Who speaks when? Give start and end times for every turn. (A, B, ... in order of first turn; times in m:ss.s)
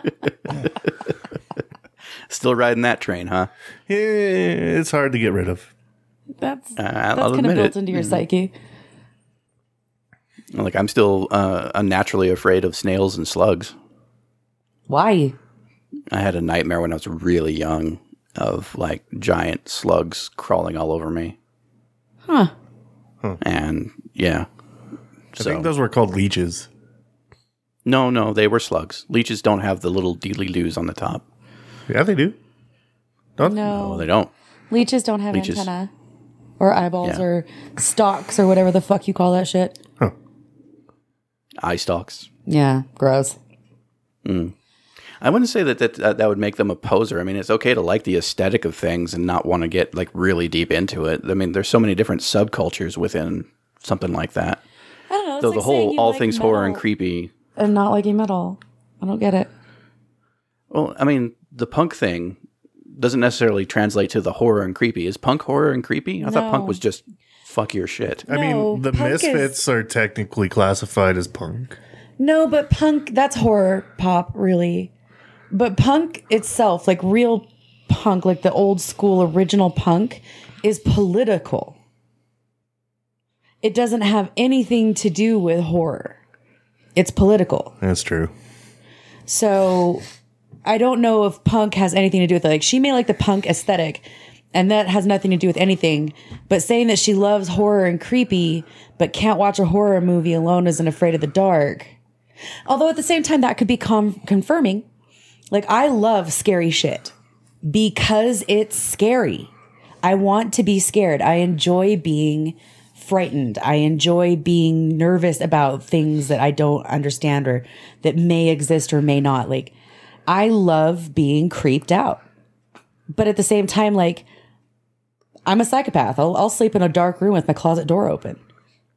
0:02.3-0:03.5 A
0:03.9-0:05.7 B
0:06.4-0:08.5 C
0:06.8-0:08.2 A
0:10.5-0:13.7 A
0:14.9-0:15.4 C
0:16.1-0:21.4 A
0:22.2-0:22.5 C
0:23.4-0:24.5 A
0:25.3-0:25.7 A
0:25.4-0:26.7 B
0:27.8-0:31.2 A
0:31.9-0:32.4 B
0:33.4-0:33.7 B
0:33.4-0:34.1 C
0:33.7-0:34.3 A
0:34.7-0:35.9 C
0:35.3-0:35.7 A
0:36.6-0:39.8 C
0:41.6-0:42.3 A
0:42.5-0:43.4 C
0:44.2-0:44.5 A
0:45.2-0:54.6 A
0:55.1-0:56.8 C
0:55.4-0:57.3 A
0:57.6-0:59.5 C
1:00.7-1:02.4 A
1:02.9-1:08.2 A
1:06.2-1:06.8 C
1:08.3-1:09.5 C
1:08.3-1:11.8 B
1:12.2-1:14.9 C
1:15.5-1:21.8 C
1:23.6-1:26.2 C
1:27.0-1:27.7 C
1:27.8-1:28.3 B
1:29.3-1:30.0 C
1:30.6-1:41.9 C
1:42.6-1:44.8 C
1:45.5-1:49.5 C
1:50.0-1:59.7 C
2:00.3-2:02.2 C
2:03.1-2:04.2 C
2:05.5-2:08.4 C